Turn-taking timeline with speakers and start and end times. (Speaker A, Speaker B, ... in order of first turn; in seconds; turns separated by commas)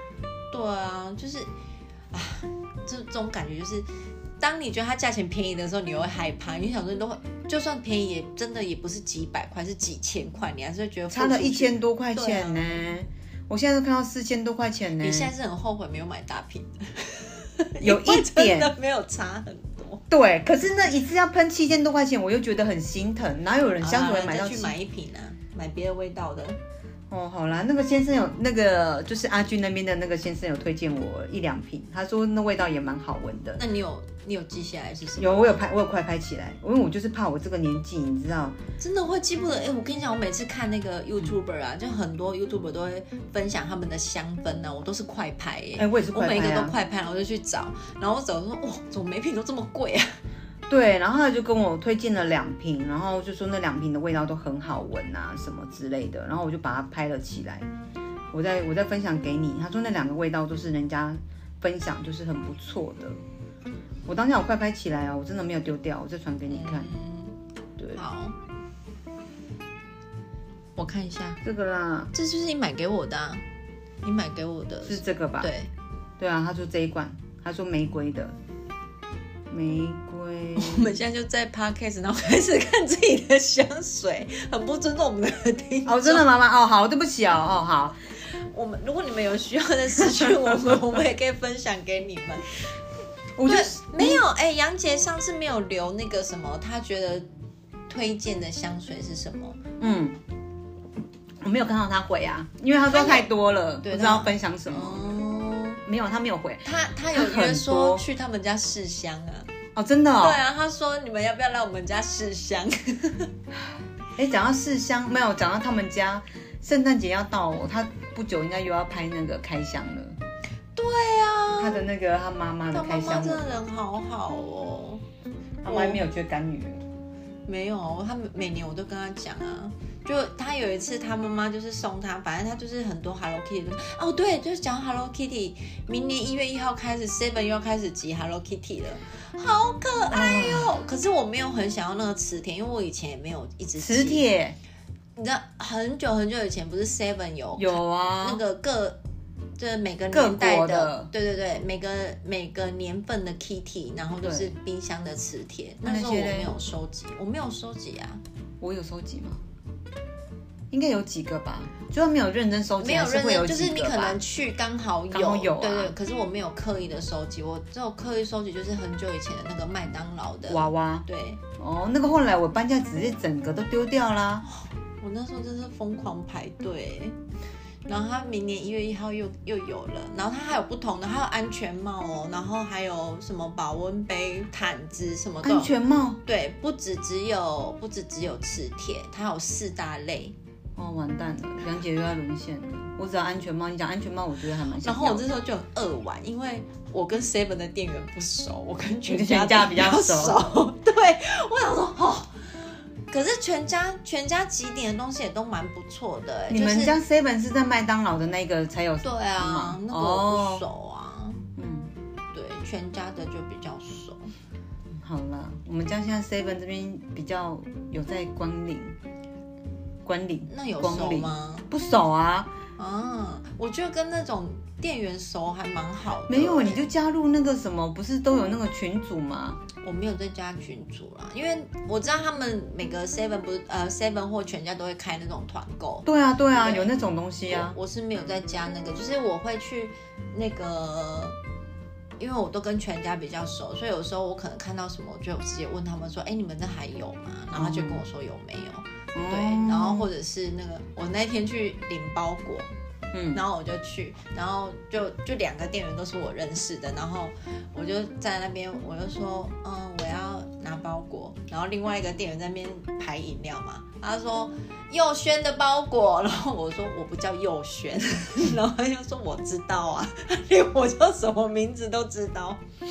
Speaker A: 0.5-1.5, Speaker A: 2.1-3.9, Speaker A: 4.4-12.9, Speaker B: 11.1-15.3, Speaker A: 15.0-20.1, Speaker B: 17.8-18.7, Speaker B: 20.1-24.8, Speaker A: 23.8-26.6, Speaker B: 27.1-33.6, Speaker A: 33.6-35.6, Speaker B: 35.2-38.6, Speaker A: 38.8-50.2, Speaker B: 45.8-46.8, Speaker B: 50.7-57.7, Speaker B: 58.3-63.2, Speaker B: 64.1-67.0, Speaker A: 66.5-67.3, Speaker A: 67.9-68.4, Speaker A: 70.8-71.4, Speaker B: 71.4-72.1, Speaker A: 72.1-73.4, Speaker A: 74.0-75.7, Speaker B: 74.9-75.5, Speaker B: 76.2-78.3, Speaker B: 79.5-81.0, Speaker A: 80.6-86.3, Speaker B: 85.9-88.0, Speaker A: 88.3-92.7, Speaker B: 93.4-94.2, Speaker A: 93.5-97.3, Speaker A: 97.9-99.6, Speaker B: 99.8-100.2, Speaker B: 101.4-105.2, Speaker A: 102.9-103.3, Speaker A: 103.8-105.8, Speaker B: 105.8-108.0, Speaker A: 106.6-109.5, Speaker B: 109.8-110.4, Speaker A: 110.2-113.3, Speaker B: 113.6-120.2, Speaker A: 120.8-121.9, Speaker B: 121.6-123.4, Speaker A: 122.7-125.0, Speaker B: 125.6-126.8, Speaker A: 125.6-126.0, Speaker A: 127.5-144.2, Speaker B: 140.1-140.8, Speaker B: 143.8-144.6, Speaker A: 145.2-149.0, Speaker B: 147.6-148.4, Speaker A: 149.6-158.2, Speaker B: 150.1-151.1, Speaker B: 154.2-154.5, Speaker B: 155.8-156.5, Speaker B: 158.6-159.4, Speaker B: 160.7-164.2, Speaker A: 162.8-171.4, Speaker B: 165.1-165.9, Speaker B: 170.5-171.1, Speaker B: 171.6-174.5, Speaker A: 174.5-177.2, Speaker A: 177.9-190.3, Speaker B: 185.4-186.2, Speaker B: 190.8-195.2, Speaker A: 194.8-202.4, Speaker B: 199.1-200.4, Speaker A: 203.1-207.0, Speaker B: 206.5-210.6, Speaker A: 209.0-211.4, Speaker B: 211.6-211.9, Speaker A: 212.3-214.3, Speaker B: 215.0-219.0, Speaker B: 220.0-222.5, Speaker A: 220.5-221.7, Speaker A: 222.8-226.9, Speaker B: 226.3-229.6, Speaker A: 229.8-236.9, Speaker B: 236.0-237.8, Speaker A: 237.5-241.4, Speaker A: 242.2-252.7, Speaker B: 247.5-248.0, Speaker B: 249.1-250.1, Speaker B: 253.1-253.4, Speaker A: 253.3-272.6